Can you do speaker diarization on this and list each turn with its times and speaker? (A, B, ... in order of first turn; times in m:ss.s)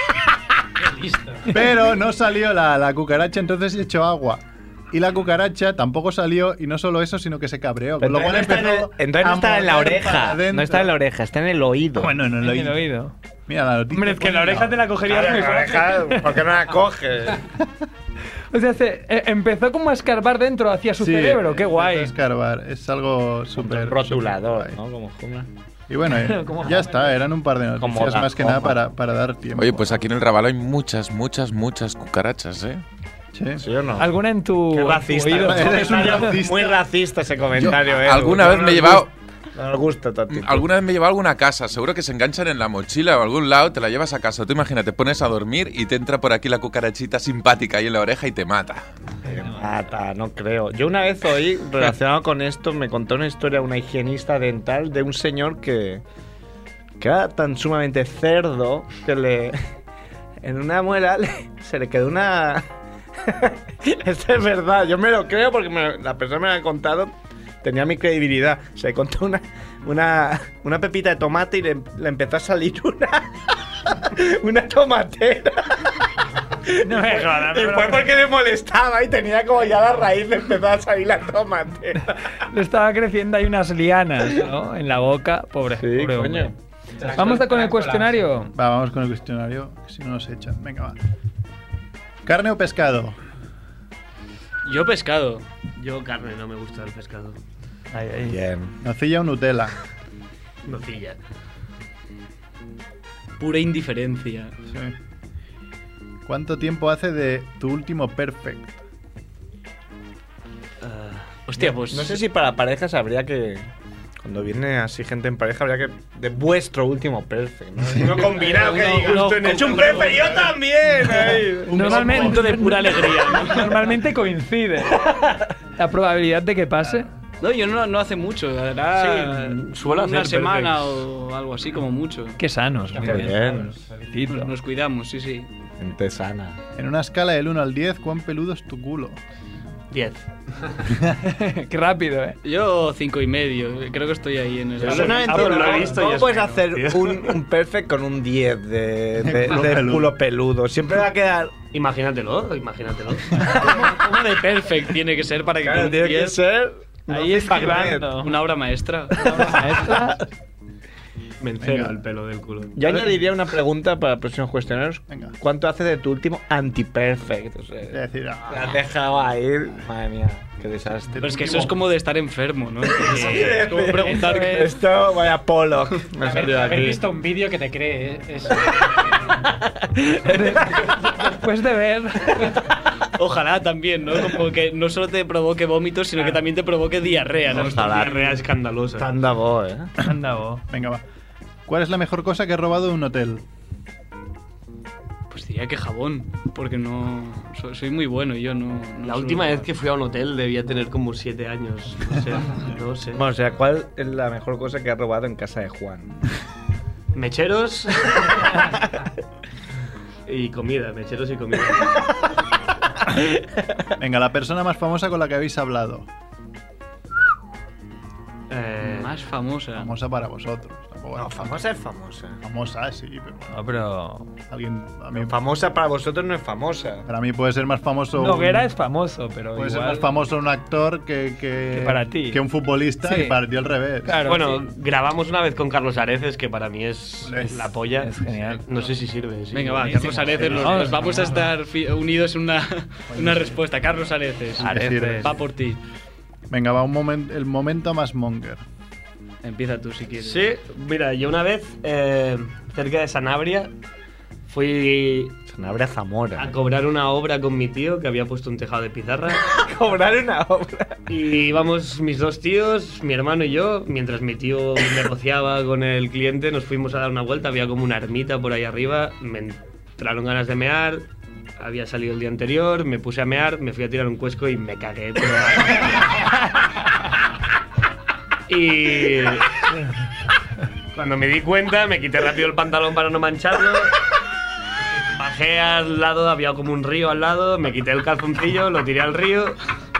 0:00.8-0:01.6 A
0:01.5-0:10.9 B
0:08.0-0:12.1 C
0:12.0-0:12.8 B
0:12.4-0:13.1 D
0:13.5-0:14.8 B
0:13.9-0:16.5 D
0:15.0-0:17.4 C
0:18.5-0:22.1 D
0:21.0-0:24.8 B
0:23.6-0:25.5 C
0:25.9-0:30.0 B
0:26.1-0:27.2 D
0:27.8-0:28.8 C
0:29.6-0:32.8 E
0:33.3-0:33.6 B
0:33.6-0:34.1 C
0:34.0-0:36.3 D
0:34.7-0:40.7 C
0:35.3-0:36.8 B
0:37.6-0:39.1 E
0:40.3-0:48.9 E
0:49.2-0:56.0 C
0:49.3-0:49.6 D
0:57.0-0:59.6 C
1:00.4-1:02.6 C
1:03.2-1:13.3 C
1:13.9-1:15.9 C
1:16.6-1:22.2 C
1:16.8-1:18.1 D
1:22.4-1:26.5 D
1:25.7-1:26.5 C
1:27.0-1:28.3 A
1:27.0-1:28.5 D
1:28.5-1:31.0 B
1:32.2-1:33.2 B
1:34.6-1:35.5 F
1:35.7-1:37.4 G
1:37.9-1:38.4 D
1:38.3-1:38.7 C
1:38.8-1:39.8 B
1:40.6-1:41.2 G
1:43.4-1:44.5 F
1:44.7-1:44.9 B
1:46.2-1:48.8 B
1:50.8-1:51.3 G
1:51.4-1:52.2 F
1:51.6-1:53.7 C
1:54.2-2:02.0 C
1:58.0-2:00.4 G
1:58.5-2:00.4 F
2:01.0-2:02.6 B
2:01.7-2:05.0 D
2:01.8-2:03.9 F
2:04.9-2:05.4 C
2:05.8-2:07.1 D
2:07.4-2:12.4 F
2:08.9-2:11.0 G
2:12.4-2:14.5 D
2:12.9-2:13.9 A
2:13.0-2:13.7 C
2:14.3-2:15.5 F
2:15.8-2:16.6 C
2:16.8-2:19.2 B
2:19.9-2:20.3 G
2:20.9-2:21.1 B
2:21.1-2:22.4 D
2:22.4-2:25.8 F
2:24.8-2:27.4 G
2:24.8-2:31.6 C
2:29.2-2:30.1 B
2:31.7-2:33.4 G
2:33.5-2:33.8 C
2:33.6-2:36.4 F
2:35.6-2:38.1 C
2:37.1-2:38.3 D
2:38.2-2:39.3 F
2:39.2-2:40.2 D
2:39.3-2:39.9 C
2:41.4-2:42.8 G
2:41.6-2:42.0 B
2:42.7-2:51.3 C
2:45.1-2:45.3 B
2:47.9-2:48.8 B
2:51.1-2:51.8 B
2:51.2-2:54.8 F
2:53.0-2:57.0 C
2:53.9-2:54.7 D
2:56.2-2:59.4 A
2:59.9-3:02.6 D
3:03.1-3:08.3 F
3:07.4-3:09.1 G
3:07.5-3:08.3 C
3:09.0-3:09.9 C
3:10.0-3:10.6 D
3:10.7-3:11.0 B
3:11.7-3:13.4 B
3:15.3-3:19.7 F
3:19.0-3:23.2 G
3:23.1-3:26.2 C
3:27.1-3:28.7 G
3:30.3-3:32.2 G
3:34.0-3:36.1 B
3:38.5-3:39.2 G
3:38.8-3:39.9 F
3:39.8-3:41.7 B
3:41.2-3:42.4 C
3:42.4-3:43.6 B
3:43.5-3:44.3 D
3:44.5-3:45.3 B
3:45.1-3:47.0 C
3:47.0-3:48.7 B
3:48.1-3:50.1 D
3:49.5-3:54.3 B
3:51.7-3:52.4 D
3:53.0-3:53.4 D
3:54.0-3:54.7 D
3:54.2-4:01.3 G
3:57.2-3:57.6 B
3:57.4-3:58.6 D
3:59.5-4:05.8 F
4:00.3-4:01.2 B
4:00.4-4:01.0 D
4:03.1-4:03.6 B
4:04.6-4:05.3 D
4:04.6-4:05.5 B
4:06.5-4:08.6 B
4:09.4-4:10.5 F
4:10.1-4:13.7 G
4:14.4-4:15.4 G
4:15.5-4:16.5 C
4:16.4-4:19.4 G
4:19.4-4:21.0 C
4:21.1-4:31.1 G
4:31.6-4:36.3 G
4:38.5-4:39.6 G
4:40.9-4:44.0 G
4:45.1-4:49.6 G